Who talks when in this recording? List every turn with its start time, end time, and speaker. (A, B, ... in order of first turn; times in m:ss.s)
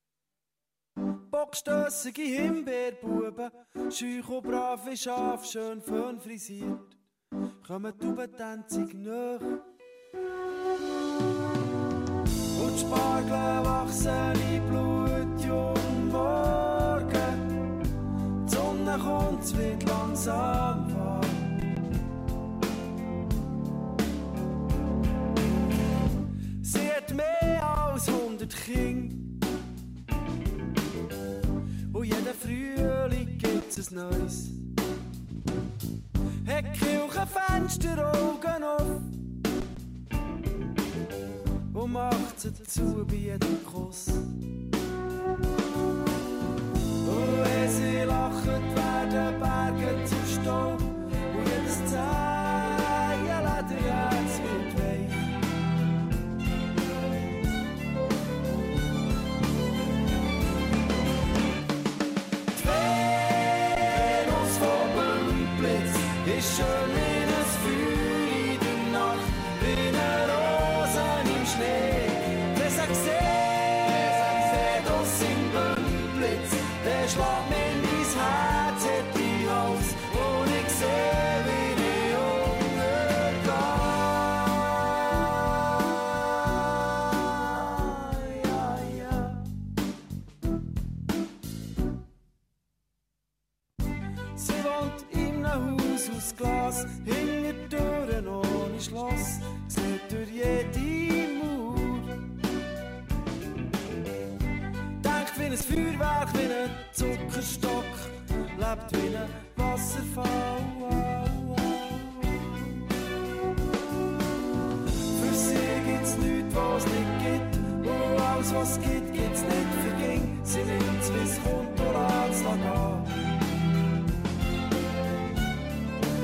0:01.3-0:07.0 A
0:07.6-0:09.6 A
0:12.5-0:17.5 A
0:18.4-0:21.6 A
0:26.6-0:29.3 A
0:31.9-0:34.6 A
0:36.4-0:39.1 A
0:41.7-0:44.3 A
0:47.0-0:55.3 A
1:02.6-1:29.4 A
1:34.4-1:42.2 A
1:45.0-1:52.5 A
1:55.2-2:03.2 A